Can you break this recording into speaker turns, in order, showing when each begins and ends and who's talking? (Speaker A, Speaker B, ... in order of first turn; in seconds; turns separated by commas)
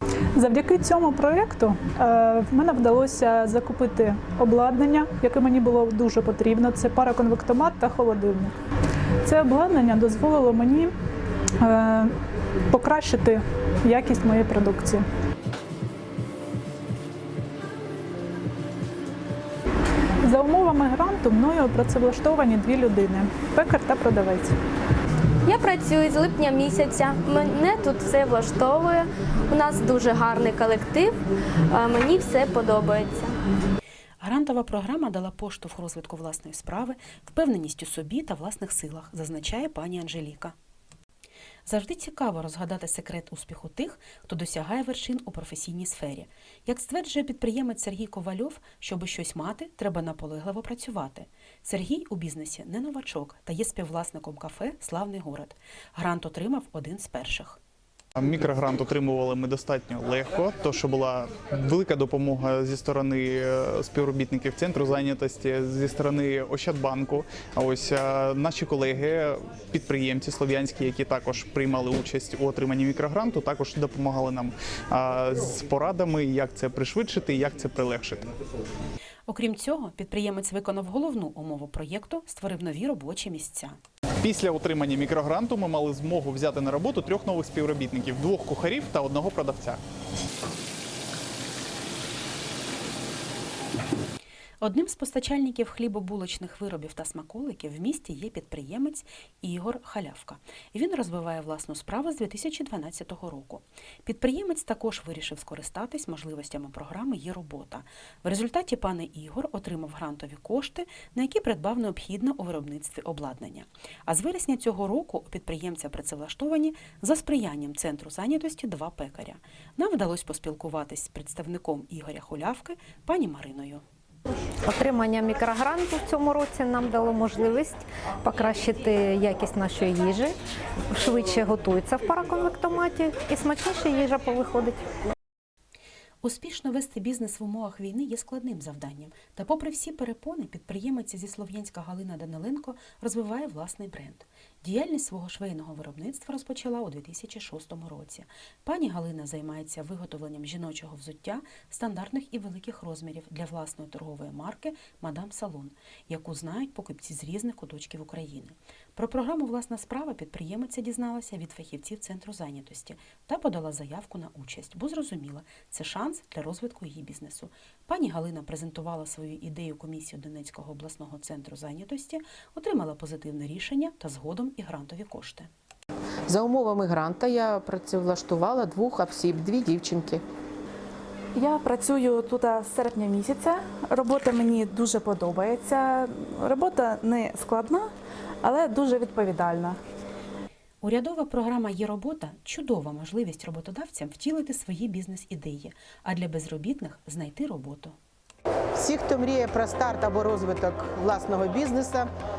Speaker A: 0.3-8.5, Speaker A: 9.2-10.9, Speaker A: 11.6-12.1, Speaker A: 12.7-15.0, Speaker A: 20.2-24.5, Speaker B: 25.4-33.4, Speaker C: 34.2-40.5, Speaker C: 41.6-57.6, Speaker D: 58.2-78.2, Speaker C: 79.3-83.8, Speaker D: 84.2-89.8, Speaker C: 94.6-123.8, Speaker E: 124.6-130.3, Speaker E: 130.9-134.8, Speaker C: 136.2-175.5, Speaker F: 176.3-180.2, Speaker G: 181.3-187.9, Speaker G: 188.4-189.8, Speaker C: 190.8-197.9, Speaker F: 198.7-202.1